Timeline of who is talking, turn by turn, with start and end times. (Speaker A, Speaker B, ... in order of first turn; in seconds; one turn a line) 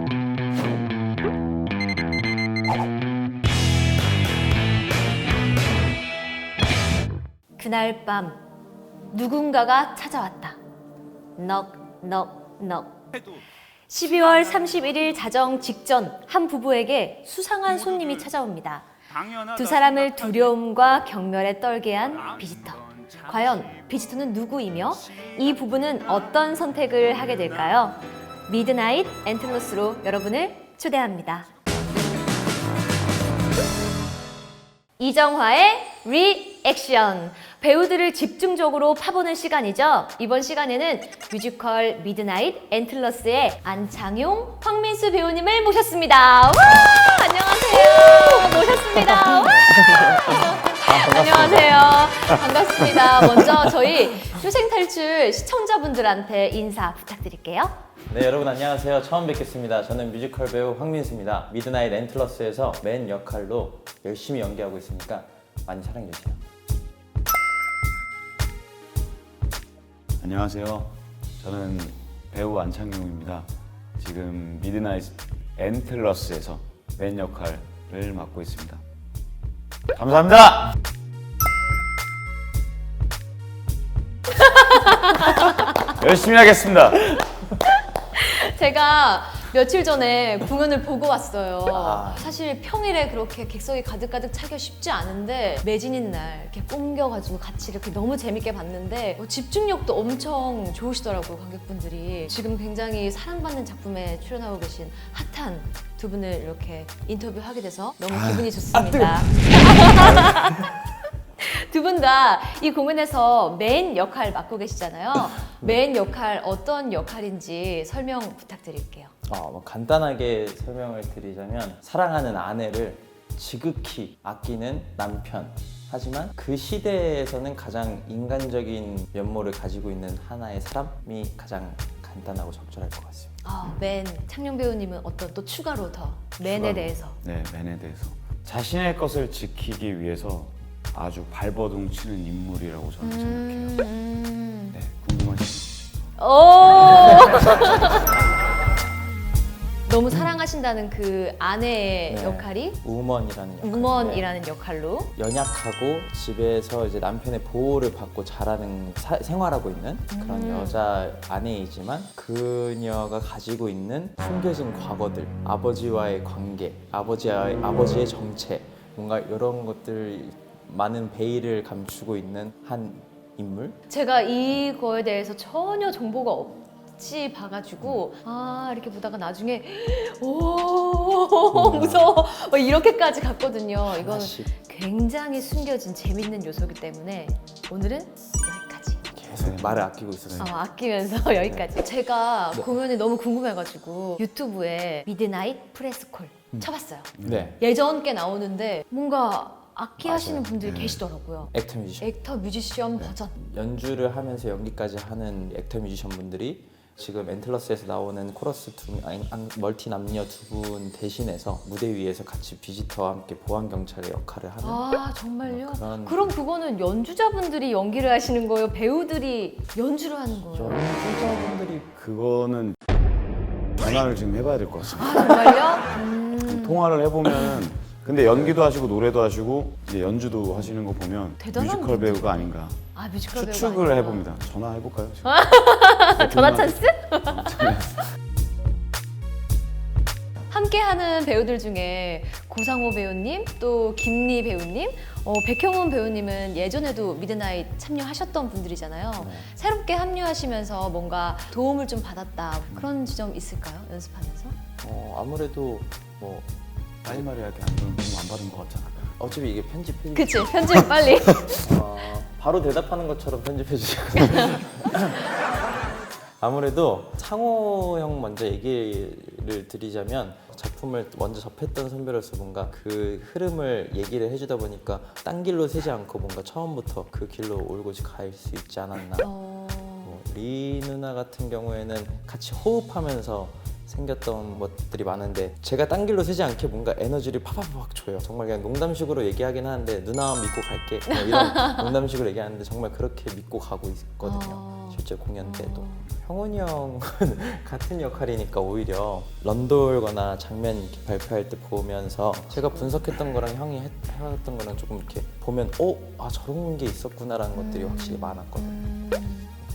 Speaker A: 7.6-8.4
Speaker A: 9.1-10.6
Speaker A: 11.3-13.0
Speaker A: 13.9-18.9
Speaker B: 19.1-20.5
Speaker A: 19.5-31.5
Speaker B: 22.3-23.6
Speaker A: 35.0-57.8
Speaker C: 46.7-47.1
Speaker C: 48.3-52.1
Speaker C: 58.1-66.4
Speaker B: 70.2-73.5
Speaker B: 74.0-78.8
Speaker B: 79.9-80.8
Speaker A: 84.3-85.9
Speaker B: 85.8-87.1
Speaker A: 87.6-110.7
Speaker C: 91.7-92.3
Speaker B: 108.1-108.5
Speaker C: 108.9-110.7
Speaker A: 111.4-119.1
Speaker C: 119.2-133.3
Speaker A: 133.4-137.2
Speaker B: 136.4-143.8
Speaker A: 143.0-144.8
Speaker B: 144.7-145.8
Speaker A: 146.2-148.1
Speaker A: 149.9-152.8
Speaker C: 152.1-154.3
Speaker A: 153.6-155.1
Speaker C: 155.1-173.8
Speaker A: 160.1-160.8
Speaker A: 173.9-189.0
Speaker C: 181.5-182.2
Speaker C: 183.8-184.5
Speaker C: 189.1-190.5
Speaker B: 189.4-189.9
Speaker A: 190.4-203.3
Speaker C: 191.3-191.7
Speaker B: 197.1-197.6
Speaker C: 197.2-197.6
Speaker C: 200.0-200.6
Speaker B: 200.6-201.0
Speaker C: 201.5-202.1
Speaker C: 203.3-216.3
Speaker A: 214.6-220.8
Speaker C: 220.5-221.9
Speaker B: 221.9-222.8
Speaker B: 223.8-225.3
Speaker A: 224.9-226.8
Speaker C: 225.3-225.6
Speaker B: 226.4-232.8
Speaker C: 228.2-228.6
Speaker A: 231.4-234.3
Speaker B: 233.3-235.3
Speaker A: 235.2-237.8
Speaker B: 236.1-238.0
Speaker A: 240.5-254.6
Speaker C: 249.2-249.5
Speaker C: 254.8-256.5
Speaker B: 257.1-259.2
Speaker C: 259.2-260.9
Speaker A: 260.1-261.6
Speaker C: 261.5-265.3
Speaker C: 266.4-279.3
Speaker A: 279.2-280.2
Speaker C: 280.0-308.8
Speaker A: 291.1-291.9
Speaker A: 294.2-296.1
Speaker A: 302.5-303.1
Speaker A: 307.5-309.5